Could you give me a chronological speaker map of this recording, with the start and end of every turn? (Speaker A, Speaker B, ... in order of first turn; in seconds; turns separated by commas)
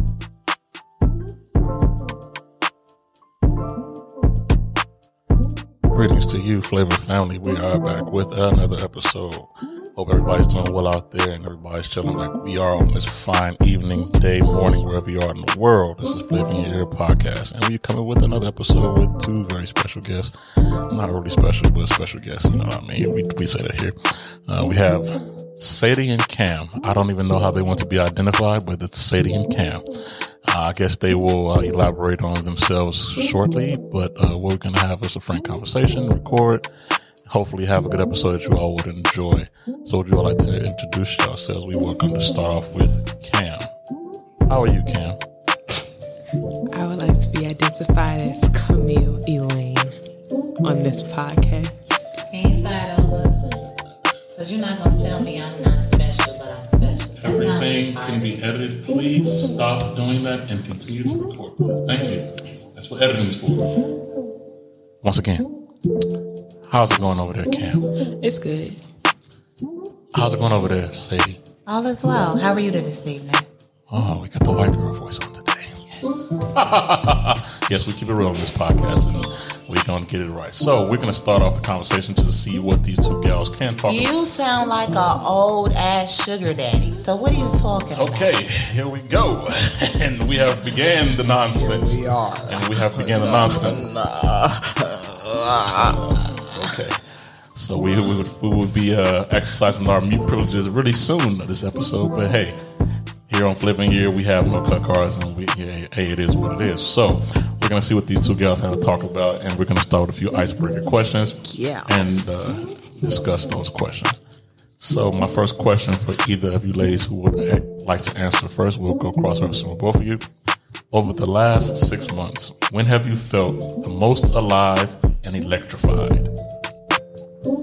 Speaker A: 5.9-36.7, Speaker A: 37.3-43.7, Speaker A: 44.5-45.2, Speaker B: 46.7-50.0, Speaker B: 50.6-51.7, Speaker C: 52.3-53.4, Speaker C: 54.4-58.4, Speaker A: 57.2-63.9, Speaker A: 65.0-65.5, Speaker A: 66.7-67.9, Speaker B: 68.1-68.8, Speaker A: 70.1-71.4, Speaker C: 71.7-73.5, Speaker A: 73.9-84.2, Speaker C: 83.9-88.4, Speaker A: 87.9-94.1, Speaker A: 95.2-97.0, Speaker A: 97.5-102.6, Speaker A: 103.3-114.2, Speaker B: 111.5-112.3, Speaker A: 114.8-120.3, Speaker A: 120.9-126.3